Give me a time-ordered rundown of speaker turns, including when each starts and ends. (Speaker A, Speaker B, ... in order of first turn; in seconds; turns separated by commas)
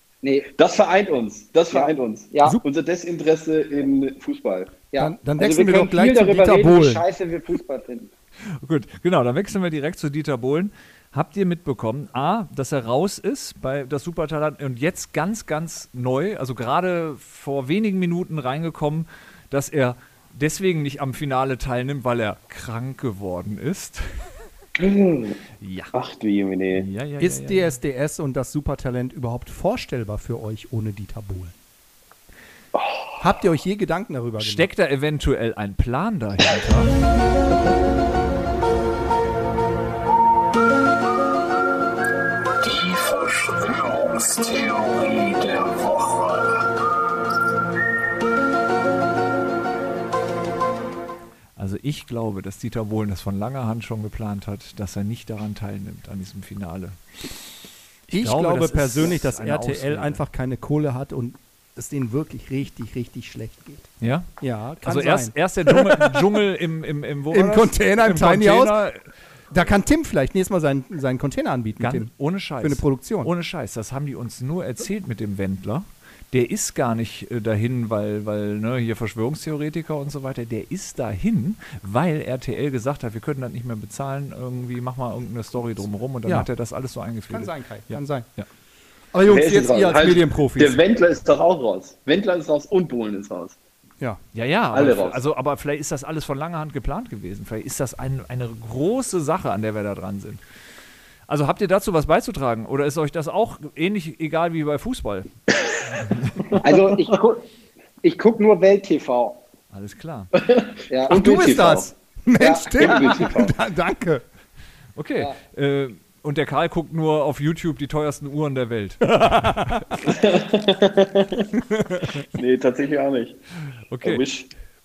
Speaker A: 0.6-4.7, Speaker B: 1.7-2.6, Speaker B: 4.9-8.1, Speaker C: 5.0-7.0, Speaker D: 8.6-24.0, Speaker A: 24.8-25.4, Speaker D: 25.6-25.9, Speaker A: 25.9-26.9, Speaker D: 26.7-27.8, Speaker C: 27.2-31.5, Speaker A: 32.7-33.2, Speaker C: 33.2-34.7, Speaker D: 34.4-36.9, Speaker A: 42.6-43.0, Speaker A: 45.0-45.8, Speaker D: 51.6-57.0, Speaker C: 58.1-66.4, Speaker D: 58.1-60.2, Speaker D: 64.0-64.3, Speaker D: 64.8-69.0, Speaker C: 67.3-68.8, Speaker C: 69.5-73.3, Speaker D: 71.8-88.5, Speaker C: 87.3-88.3, Speaker C: 89.1-90.8, Speaker A: 89.3-93.6, Speaker D: 94.3-100.4, Speaker A: 94.7-95.2, Speaker D: 101.3-105.3, Speaker D: 106.0-106.5, Speaker A: 106.5-107.0, Speaker B: 106.6-107.4, Speaker B: 108.0-109.4, Speaker D: 109.7-110.3, Speaker A: 110.3-111.9, Speaker B: 110.9-111.2, Speaker C: 111.1-114.2, Speaker B: 112.4-113.2, Speaker A: 112.8-113.5, Speaker D: 115.0-119.1, Speaker C: 119.1-119.9, Speaker A: 120.0-121.5, Speaker A: 122.2-123.4, Speaker D: 123.9-124.2, Speaker A: 124.0-124.5